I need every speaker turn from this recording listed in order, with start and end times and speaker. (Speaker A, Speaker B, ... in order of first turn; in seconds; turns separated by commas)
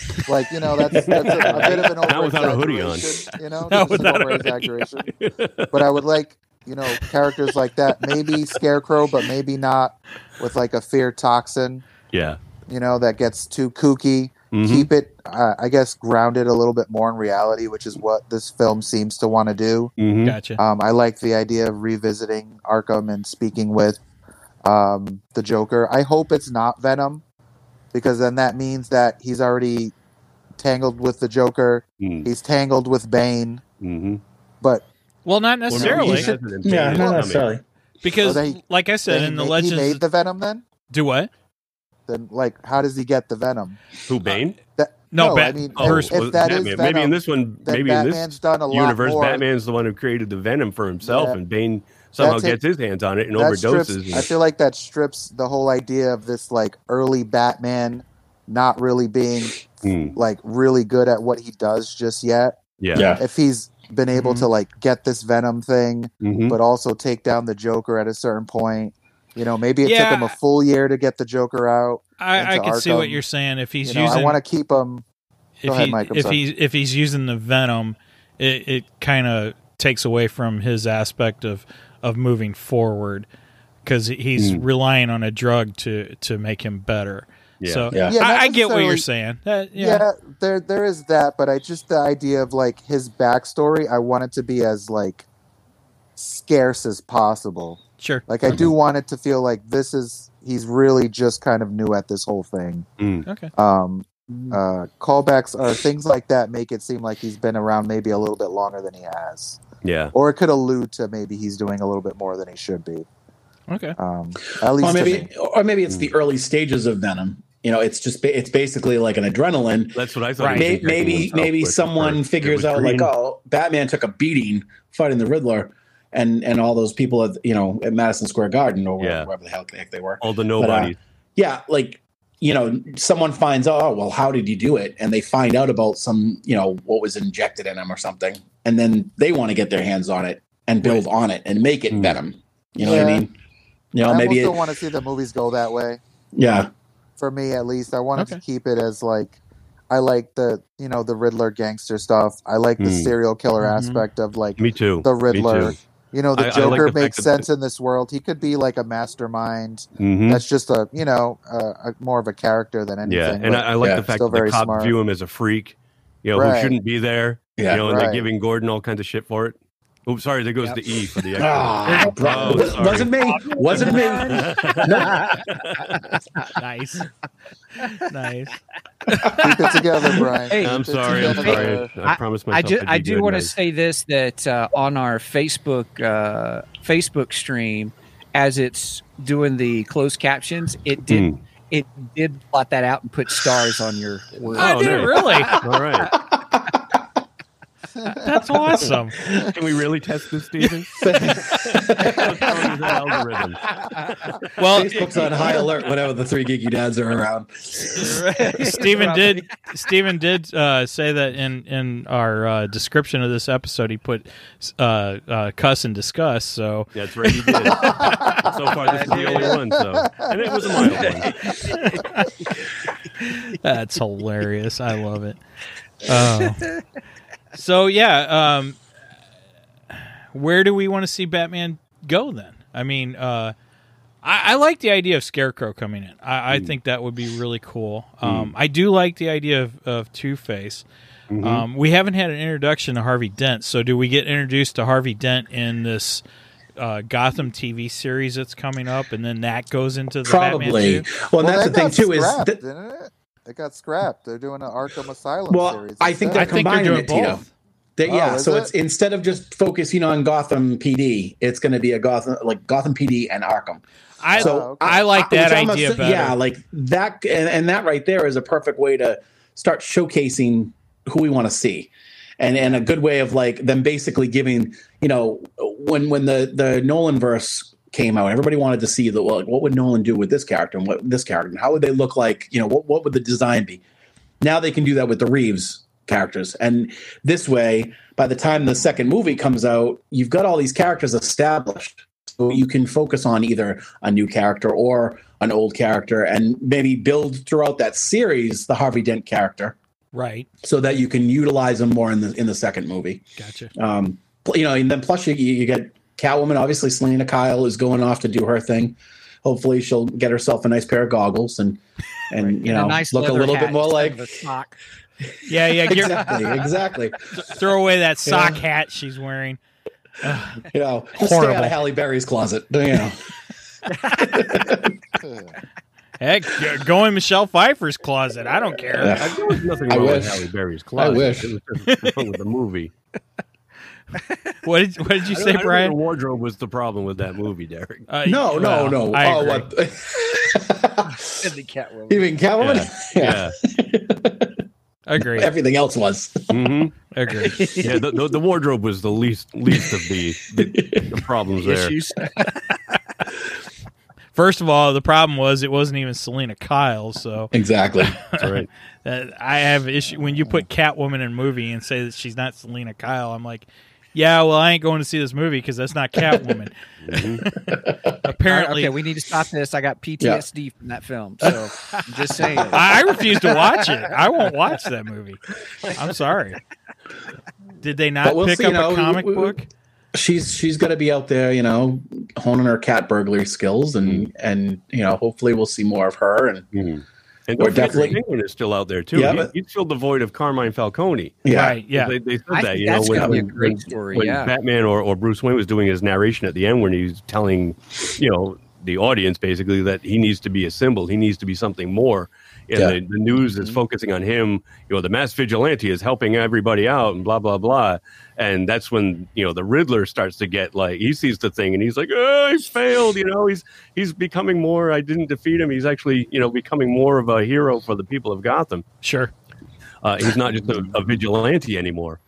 Speaker A: 0.2-5.1, Speaker B: 1.0-1.6, Speaker C: 1.0-3.2, Speaker D: 3.7-4.5, Speaker C: 5.1-6.0, Speaker A: 5.7-11.9, Speaker C: 12.1-12.4, Speaker A: 12.7-19.9, Speaker C: 14.5-14.9, Speaker C: 20.0-20.4, Speaker D: 20.2-20.6, Speaker A: 20.6-24.0, Speaker A: 24.6-27.2, Speaker A: 27.9-29.9, Speaker A: 30.6-33.6, Speaker C: 32.0-32.3, Speaker C: 33.8-34.2, Speaker D: 35.2-36.3, Speaker C: 35.7-37.5, Speaker A: 35.8-36.4, Speaker B: 35.8-36.1, Speaker B: 36.6-37.6, Speaker D: 38.0-40.0, Speaker A: 38.2-40.6, Speaker D: 40.9-41.3, Speaker A: 42.1-43.8, Speaker C: 44.1-44.6, Speaker A: 44.8-49.4, Speaker D: 45.1-46.1, Speaker C: 45.8-54.3, Speaker A: 51.0-51.4, Speaker A: 52.2-52.6, Speaker A: 53.3-62.6, Speaker C: 59.8-60.1, Speaker C: 62.8-63.1, Speaker B: 62.9-63.2, Speaker A: 63.1-73.2, Speaker D: 64.1-64.5, Speaker C: 66.2-66.6, Speaker D: 69.8-70.3, Speaker D: 72.2-74.4, Speaker A: 73.8-75.0, Speaker D: 75.6-83.3, Speaker A: 75.7-76.4, Speaker D: 83.8-90.0, Speaker C: 84.4-84.6, Speaker C: 87.6-87.9, Speaker B: 87.9-88.2, Speaker A: 88.0-89.0, Speaker A: 89.7-95.2, Speaker A: 96.2-102.8, Speaker D: 98.0-98.3, Speaker C: 103.0-103.2, Speaker D: 103.2-103.5, Speaker A: 103.5-109.6, Speaker C: 109.8-110.1, Speaker A: 110.1-113.0, Speaker D: 113.7-114.0, Speaker A: 114.0-115.3, Speaker B: 114.7-143.3, Speaker C: 119.9-123.1, Speaker D: 120.4-120.7, Speaker C: 129.0-129.3, Speaker C: 130.2-131.0, Speaker A: 142.8-143.2, Speaker B: 143.9-144.6, Speaker A: 144.1-146.0, Speaker B: 146.3-146.7, Speaker A: 147.2-149.4, Speaker D: 148.2-148.4, Speaker A: 149.9-164.9, Speaker C: 152.8-153.1, Speaker D: 153.6-154.0, Speaker C: 154.6-155.8, Speaker C: 156.3-157.4, Speaker C: 160.0-160.4, Speaker C: 163.0-173.1, Speaker A: 166.3-166.8, Speaker B: 167.6-167.8, Speaker A: 167.7-168.3, Speaker B: 171.4-175.2, Speaker D: 173.5-174.3, Speaker C: 173.7-175.7, Speaker E: 173.7-176.5, Speaker D: 176.6-177.1, Speaker D: 177.7-178.5, Speaker D: 179.1-179.5, Speaker A: 179.3-181.9, Speaker E: 180.4-196.1, Speaker C: 180.5-183.5, Speaker C: 191.1-191.4, Speaker C: 194.5-196.1, Speaker D: 194.5-195.6, Speaker B: 196.1-196.8, Speaker A: 198.0-198.2, Speaker D: 198.1-199.2, Speaker C: 198.8-203.7, Speaker D: 200.6-201.8, Speaker B: 201.0-202.6, Speaker E: 203.7-204.1, Speaker D: 204.6-205.0, Speaker B: 204.6-209.4, Speaker D: 208.5-218.4, Speaker C: 216.9-221.6, Speaker E: 217.8-219.6, Speaker E: 220.9-222.1, Speaker D: 221.7-222.3, Speaker D: 223.2-225.4, Speaker D: 226.0-226.7, Speaker E: 226.2-226.8, Speaker D: 227.5-228.8, Speaker D: 230.3-233.5, Speaker D: 234.2-240.8, Speaker C: 238.2-238.5, Speaker C: 241.3-241.6, Speaker D: 241.4-246.2, Speaker D: 246.8-251.1, Speaker B: 250.2-252.6, Speaker A: 251.4-256.5, Speaker B: 255.5-257.4, Speaker D: 256.3-257.5, Speaker B: 258.0-263.8, Speaker A: 258.1-258.7, Speaker D: 264.2-266.4, Speaker A: 264.3-264.9, Speaker B: 264.3-283.8, Speaker B: 284.4-299.8, Speaker D: 300.1-300.5, Speaker B: 300.6-303.2, Speaker D: 303.4-303.7, Speaker B: 303.7-314.3, Speaker E: 312.6-314.8, Speaker D: 315.5-316.4, Speaker B: 315.8-317.2, Speaker D: 317.3-319.6, Speaker B: 318.2-318.6, Speaker D: 320.2-320.6, Speaker B: 320.6-323.2, Speaker D: 321.1-321.8, Speaker E: 323.9-324.3, Speaker B: 324.1-325.0, Speaker A: 325.2-325.5, Speaker D: 326.2-329.3, Speaker B: 328.9-330.4, Speaker C: 329.1-332.9, Speaker B: 330.9-331.5, Speaker D: 331.9-332.1, Speaker D: 334.6-335.9, Speaker C: 335.3-338.1, Speaker D: 338.1-339.7, Speaker B: 338.2-341.5, Speaker E: 341.4-342.2, Speaker B: 342.1-344.6, Speaker C: 342.6-343.6, Speaker D: 345.1-345.5, Speaker B: 345.2-346.7, Speaker C: 346.5-346.9, Speaker D: 347.1-347.7, Speaker E: 347.4-347.9, Speaker C: 347.8-351.9, Speaker B: 350.6-351.1, Speaker E: 351.6-352.7, Speaker D: 354.3-369.0, Speaker B: 357.5-358.2, Speaker C: 358.4-358.7, Speaker C: 367.0-367.4, Speaker B: 367.7-368.1, Speaker E: 368.4-374.1, Speaker D: 372.7-376.6, Speaker D: 377.8-379.7, Speaker B: 378.2-379.6, Speaker B: 380.1-386.6, Speaker C: 386.7-418.8, Speaker B: 387.6-388.2, Speaker B: 389.1-389.5, Speaker B: 391.4-391.8, Speaker D: 391.5-392.1, Speaker E: 392.5-394.5, Speaker B: 393.1-393.4, Speaker D: 419.0-419.3, Speaker C: 420.0-422.2